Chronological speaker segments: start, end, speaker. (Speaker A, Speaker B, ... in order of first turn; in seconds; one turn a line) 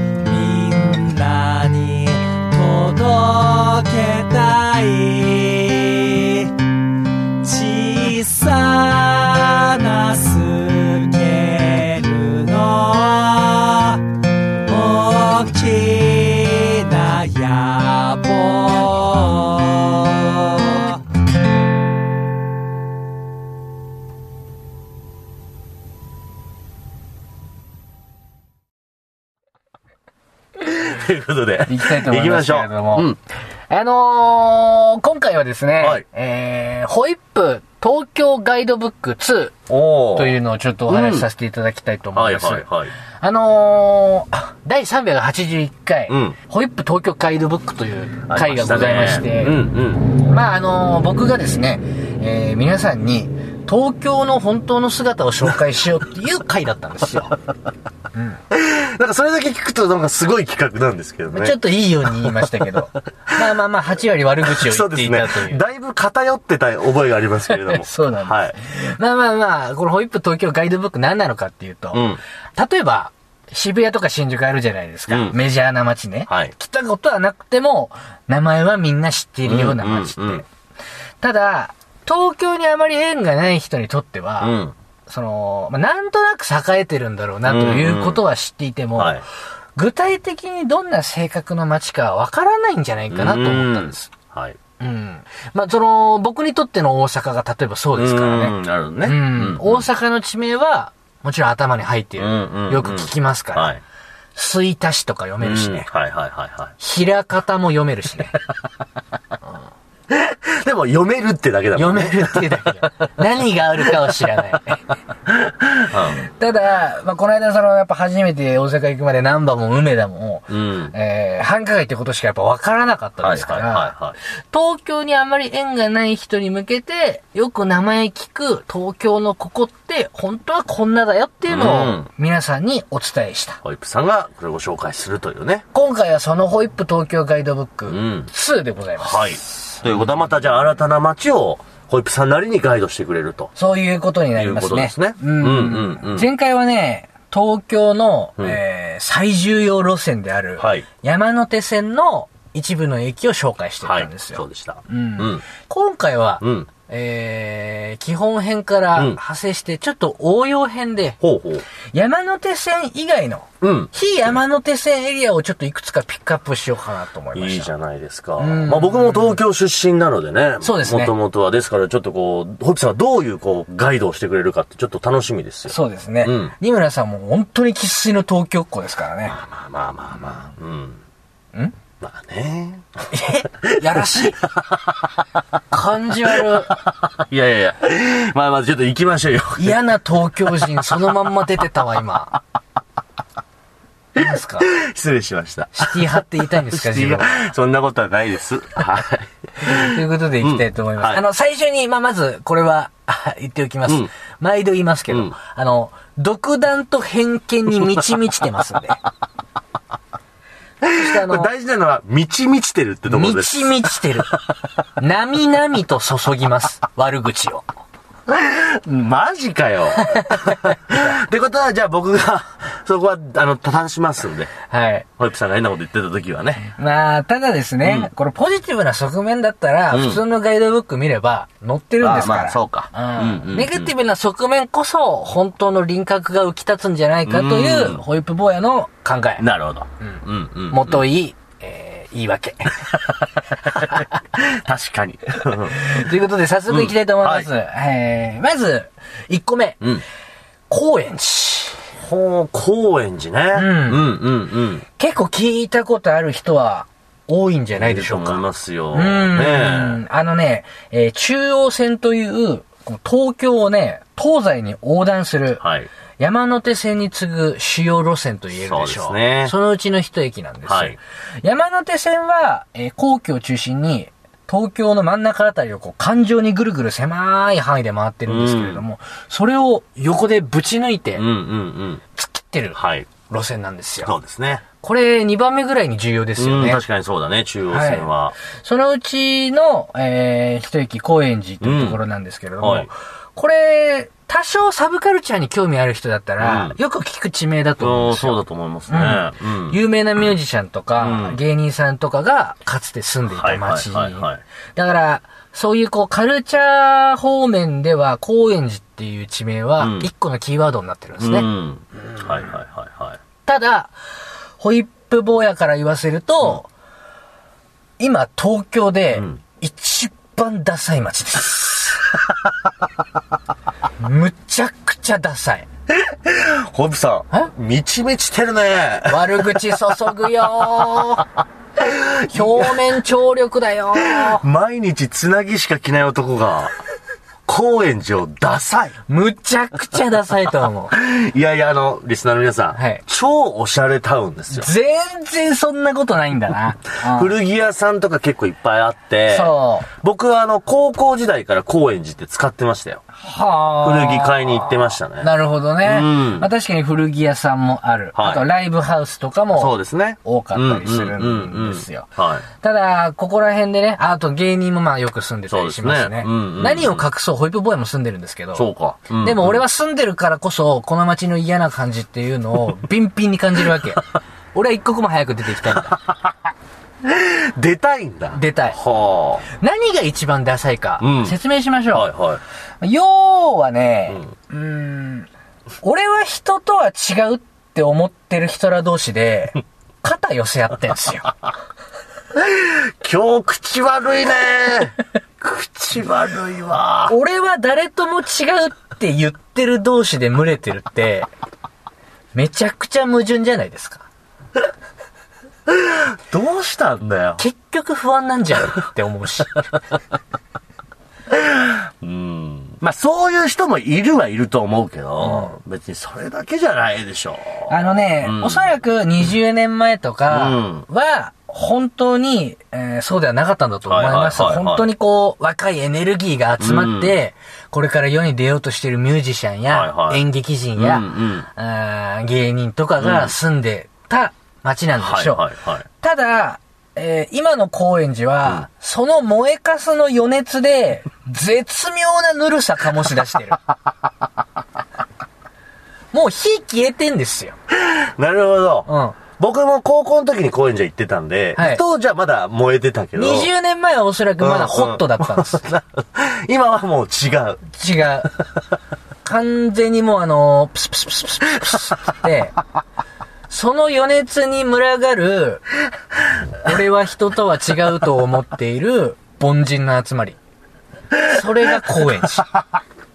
Speaker A: 0.2-6.5
Speaker A: 7.4-14.0
Speaker A: 14.7-21.0
Speaker B: 30.6-33.2
Speaker C: 31.7-33.1
Speaker C: 33.7-39.6
Speaker B: 35.8-36.0
Speaker B: 39.7-40.4
Speaker C: 40.1-42.7
Speaker B: 40.9-41.3
Speaker B: 42.1-42.9
Speaker C: 43.2-49.6
Speaker B: 46.1-46.4
Speaker B: 48.3-50.0
Speaker C: 50.2-57.3
Speaker C: 58.1-58.4
Speaker B: 58.5-61.6
Speaker C: 61.3-65.6
Speaker B: 64.5-68.6
Speaker C: 67.5-80.5
Speaker B: 71.9-72.2
Speaker B: 75.1-75.4
Speaker B: 76.3-76.5
Speaker B: 79.5-80.4
Speaker C: 81.2-89.2
Speaker B: 84.4-84.7
Speaker B: 87.5-88.2
Speaker B: 89.0-89.2
Speaker C: 89.8-94.1
Speaker B: 93.1-94.6
Speaker C: 94.8-103.8
Speaker B: 98.0-99.9
Speaker B: 102.2-103.8
Speaker C: 104.3-105.9
Speaker B: 105.4-106.7
Speaker C: 106.8-108.4
Speaker B: 110.1-112.6
Speaker C: 111.8-114.9
Speaker B: 115.7-116.2
Speaker C: 116.1-123.9
Speaker B: 120.5-120.9
Speaker B: 123.2-124.2
Speaker C: 124.5-133.6
Speaker B: 131.5-132.1
Speaker B: 133.6-135.7
Speaker C: 135.7-139.4
Speaker B: 137.9-138.3
Speaker B: 139.0-143.5
Speaker C: 143.6-161.2
Speaker B: 144.3-146.3
Speaker B: 150.6-150.8
Speaker B: 153.8-155.4
Speaker B: 156.4-156.7
Speaker B: 161.2-161.6
Speaker C: 161.9-167.7
Speaker B: 163.6-164.3
Speaker B: 167.3-176.5
Speaker C: 168.4-169.4
Speaker C: 170.6-171.1
Speaker C: 175.7-179.4
Speaker B: 179.3-181.0
Speaker B: 182.0-182.9
Speaker C: 183.1-184.4
Speaker B: 183.8-184.9
Speaker C: 185.7-186.8
Speaker B: 186.5-189.8
Speaker C: 189.6-192.4
Speaker C: 194.1-194.7
Speaker B: 194.2-201.2
Speaker C: 195.7-197.4
Speaker C: 199.6-209.0
Speaker B: 205.1-205.3
Speaker B: 210.8-213.9
Speaker C: 210.9-211.5
Speaker C: 213.1-214.3
Speaker C: 215.0-217.6
Speaker B: 218.3-224.5
Speaker C: 220.0-220.6
Speaker C: 224.7-225.1
Speaker B: 225.2-226.7
Speaker C: 226.8-239.4
Speaker B: 227.8-228.1
Speaker B: 229.9-230.2
Speaker B: 232.0-233.9
Speaker B: 237.2-238.0
Speaker B: 239.4-241.0
Speaker C: 240.0-242.8
Speaker B: 243.8-245.9
Speaker C: 245.7-249.8
Speaker B: 246.7-247.5
Speaker C: 250.7-251.8
Speaker B: 252.0-254.8
Speaker C: 253.5-254.0
Speaker C: 255.0-265.6
Speaker B: 257.8-260.0
Speaker B: 265.6-265.9
Speaker C: 266.2-281.2
Speaker B: 268.5-269.5
Speaker B: 270.7-270.9
Speaker B: 278.3-278.8
Speaker B: 281.1-282.0
Speaker C: 282.1-284.1
Speaker B: 282.7-283.1
Speaker B: 284.0-284.6
Speaker C: 284.8-286.8
Speaker B: 286.4-288.3
Speaker C: 287.7-311.5
Speaker B: 291.6-292.0
Speaker B: 292.6-292.9
Speaker B: 296.4-296.8
Speaker B: 297.8-299.8
Speaker B: 301.0-301.4
Speaker B: 303.3-304.4
Speaker B: 309.8-310.1
Speaker B: 311.2-313.2
Speaker C: 313.4-313.9
Speaker C: 314.6-316.7
Speaker C: 318.0-322.0
Speaker C: 324.0-325.7
Speaker B: 325.9-329.6
Speaker C: 329.1-331.3
Speaker B: 331.8-332.9
Speaker C: 332.3-334.4
Speaker B: 334.0-336.7
Speaker B: 337.4-339.0
Speaker C: 339.1-340.9
Speaker B: 340.9-344.7
Speaker C: 342.7-343.0
Speaker C: 344.5-347.3
Speaker B: 347.0-353.0
Speaker C: 349.3-349.9
Speaker C: 353.2-362.1
Speaker B: 353.8-355.3
Speaker B: 355.8-356.5
Speaker B: 358.1-358.4
Speaker B: 359.6-362.4
Speaker C: 362.6-368.6
Speaker B: 365.5-367.0
Speaker B: 368.5-369.6
Speaker C: 369.2-376.0
Speaker B: 377.0-379.4
Speaker C: 378.3-378.8
Speaker C: 379.5-382.1
Speaker B: 381.0-381.3
Speaker B: 381.9-382.4
Speaker C: 382.8-385.3
Speaker C: 385.8-391.3
Speaker B: 392.3-397.1
Speaker C: 397.1-401.3
Speaker C: 402.3-404.1
Speaker B: 405.7-407.4
Speaker C: 407.4-409.6
Speaker B: 411.3-418.8
Speaker C: 415.2-415.5
Speaker C: 417.7-435.5
Speaker B: 420.3-420.9
Speaker B: 423.9-424.9
Speaker B: 426.6-427.1
Speaker B: 429.7-430.2
Speaker B: 430.8-431.4
Speaker B: 433.0-433.3
Speaker B: 435.0-435.8
Speaker C: 436.0-443.6
Speaker C: 446.1-447.6
Speaker B: 447.7-453.5
Speaker C: 448.9-449.2
Speaker C: 451.6-451.8
Speaker C: 453.1-455.6
Speaker B: 454.4-457.6
Speaker C: 457.7-458.3
Speaker C: 459.2-462.6
Speaker C: 463.5-465.6
Speaker C: 466.6-470.4
Speaker C: 471.2-472.5